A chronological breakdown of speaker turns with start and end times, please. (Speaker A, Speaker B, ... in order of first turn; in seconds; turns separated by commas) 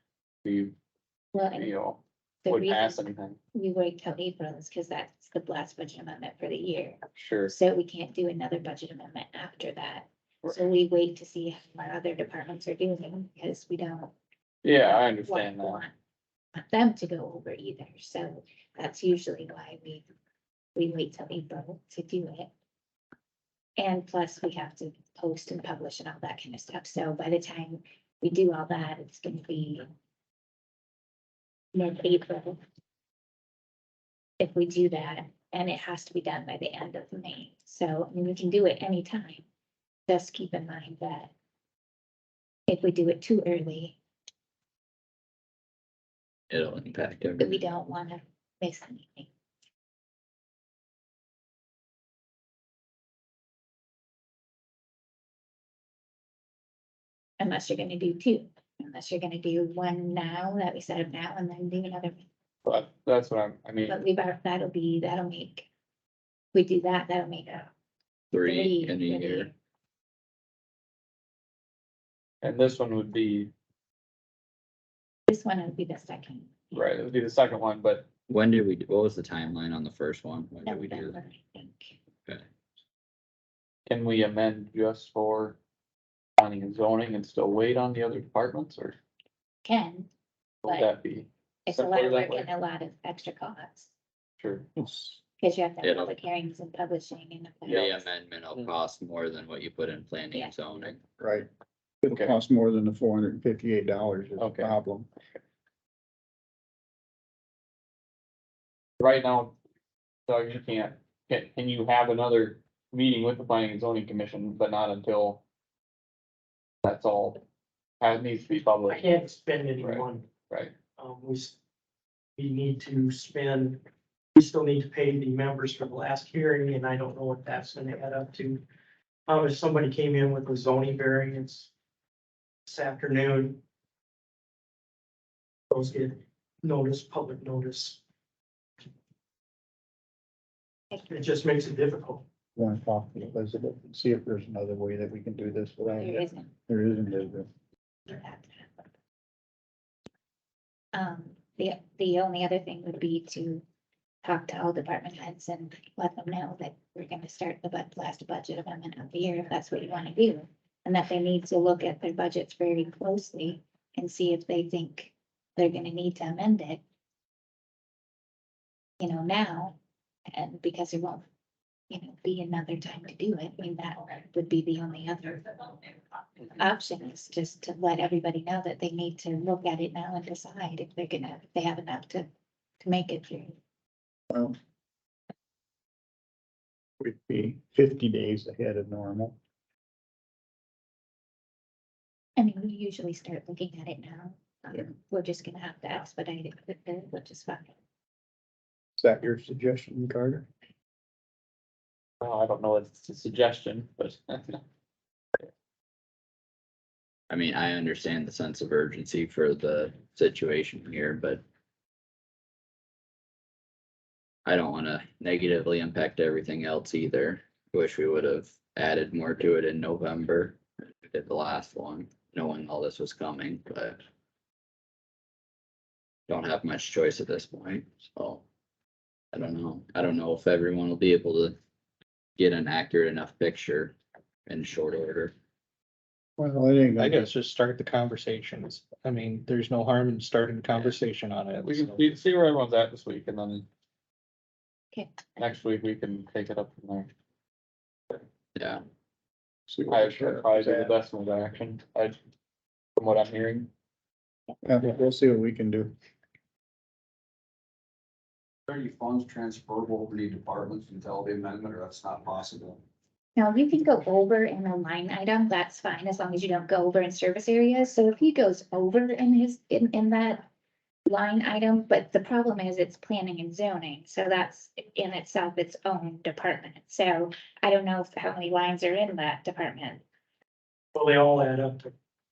Speaker A: 0.5-0.7, Speaker B: 1.3-1.7, Speaker A: 1.5-3.4, Speaker B: 2.4-3.0, Speaker B: 3.5-14.1, Speaker A: 7.1-7.5, Speaker A: 14.6-15.8, Speaker B: 14.8-15.9, Speaker B: 16.5-20.0, Speaker B: 20.8-22.5, Speaker B: 23.8-29.8, Speaker B: 31.7-32.6, Speaker B: 34.4-39.4, Speaker B: 40.1-41.3, Speaker B: 42.7-44.0, Speaker C: 46.5-47.6, Speaker B: 47.4-49.3, Speaker B: 57.4-62.3, Speaker A: 62.6-64.0, Speaker B: 63.9-65.7, Speaker B: 66.5-67.7, Speaker C: 68.3-69.5, Speaker B: 68.4-69.5, Speaker A: 72.4-73.5, Speaker B: 75.3-76.7, Speaker A: 76.7-78.1, Speaker C: 78.3-81.2, Speaker B: 80.7-82.0, Speaker A: 83.9-85.6, Speaker A: 86.4-89.0, Speaker B: 89.7-90.1, Speaker A: 90.6-92.5, Speaker B: 90.7-90.9, Speaker B: 91.7-93.9, Speaker A: 94.4-94.7, Speaker B: 95.4-98.1, Speaker C: 95.8-96.2, Speaker A: 97.7-97.9, Speaker C: 97.7-101.0, Speaker B: 100.3-100.6, Speaker D: 101.2-101.5, Speaker D: 102.0-105.1, Speaker A: 102.1-102.4, Speaker A: 104.4-104.7, Speaker A: 109.0-109.5, Speaker A: 110.3-115.4, Speaker A: 116.8-117.4, Speaker A: 118.0-119.1, Speaker E: 118.9-120.3, Speaker A: 119.8-120.7, Speaker E: 121.0-121.5, Speaker E: 122.4-123.8, Speaker E: 124.3-128.6, Speaker E: 129.3-131.7, Speaker E: 132.7-133.6, Speaker E: 135.7-138.0, Speaker B: 140.9-141.3, Speaker E: 141.1-142.2, Speaker D: 142.6-147.5, Speaker B: 146.0-146.5, Speaker B: 148.1-148.7, Speaker B: 150.9-153.6, Speaker B: 154.2-166.8, Speaker B: 169.0-169.8, Speaker B: 170.3-171.2, Speaker B: 171.9-175.9, Speaker B: 176.6-182.3, Speaker B: 182.8-183.6, Speaker D: 187.0-189.3, Speaker B: 192.4-197.7, Speaker D: 199.0-200.5, Speaker A: 202.2-204.6, Speaker C: 207.3-211.4, Speaker C: 214.5-224.0, Speaker C: 226.3-228.4, Speaker C: 229.3-231.6, Speaker C: 232.4-233.9, Speaker C: 234.5-235.3, Speaker D: 236.4-237.3, Speaker F: 237.0-242.0, Speaker C: 240.7-241.0, Speaker A: 241.6-243.7, Speaker B: 244.9-245.2, Speaker A: 245.4-247.1, Speaker C: 248.6-248.8, Speaker D: 249.7-251.0, Speaker A: 249.9-252.2, Speaker A: 253.0-253.7, Speaker D: 254.6-255.9, Speaker G: 258.7-262.8, Speaker B: 263.4-270.4, Speaker B: 271.1-280.0, Speaker E: 280.9-281.9